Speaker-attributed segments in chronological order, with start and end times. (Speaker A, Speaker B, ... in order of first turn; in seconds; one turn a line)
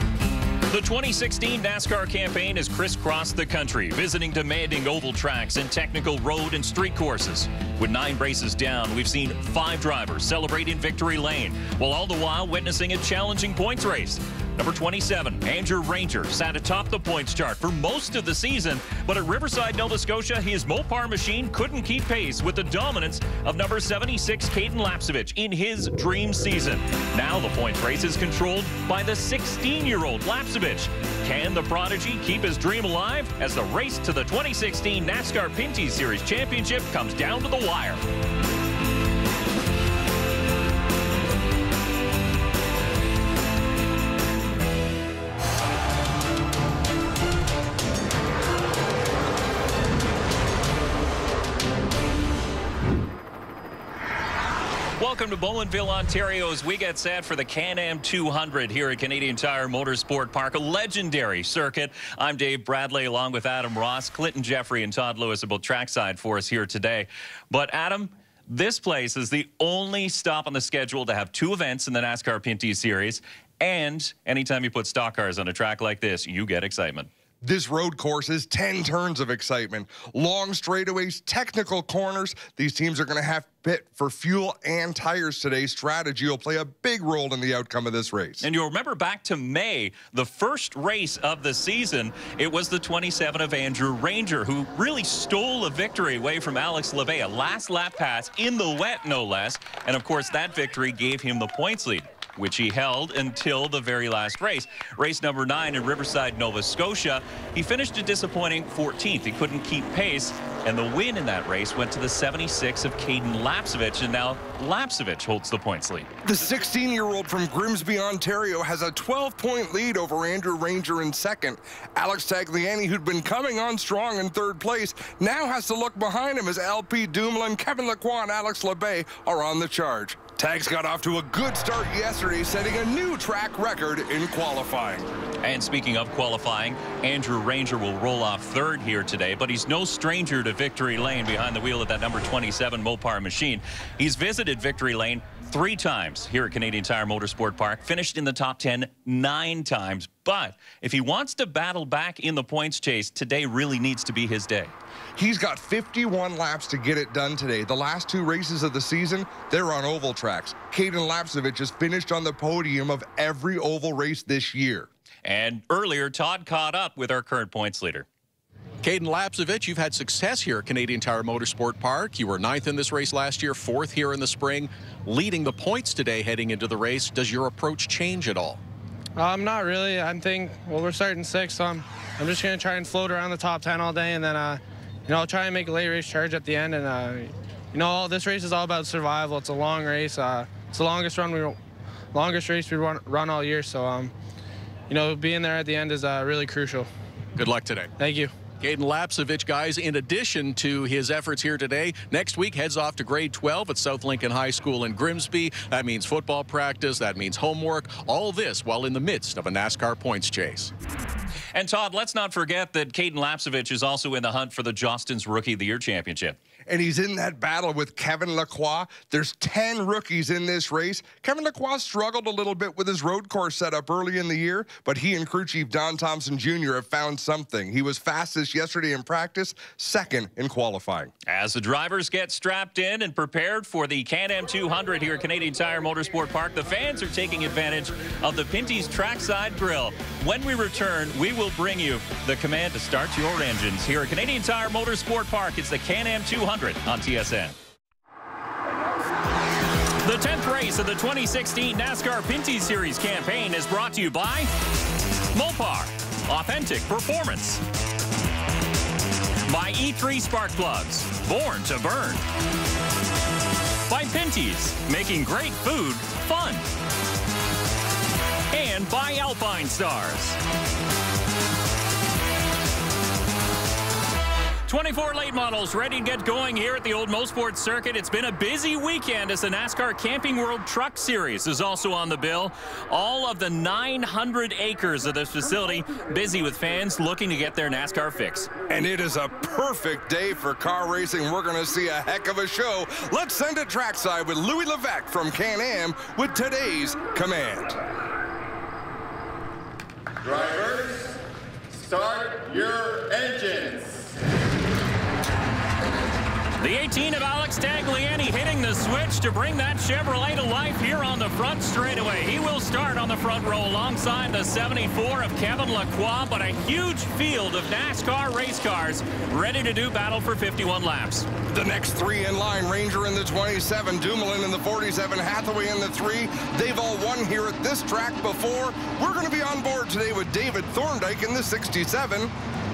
Speaker A: 0.7-38.0
Speaker A: 55.0-77.1
Speaker B: 77.4-88.5
Speaker A: 88.4-116.1
Speaker B: 116.2-135.1
Speaker A: 135.4-154.7
Speaker B: 155.2-164.9
Speaker A: 165.2-168.1
Speaker C: 168.8-178.6
Speaker D: 179.2-191.6
Speaker D: 192.1-194.1
Speaker D: 194.9-196.9
Speaker C: 197.4-197.9
Speaker D: 198.0-198.3
Speaker C: 198.6-210.7
Speaker A: 211.5-216.4
Speaker B: 216.7-231.1
Speaker A: 231.3-247.6
Speaker A: 250.0-254.5
Speaker A: 255.3-257.6
Speaker A: 259.5-262.2
Speaker A: 263.9-266.7
Speaker A: 268.5-270.4
Speaker A: 274.7-288.5
Speaker B: 288.7-297.8
Speaker B: 300.2-304.1
Speaker A: 306.6-321.3
Speaker B: 321.5-332.3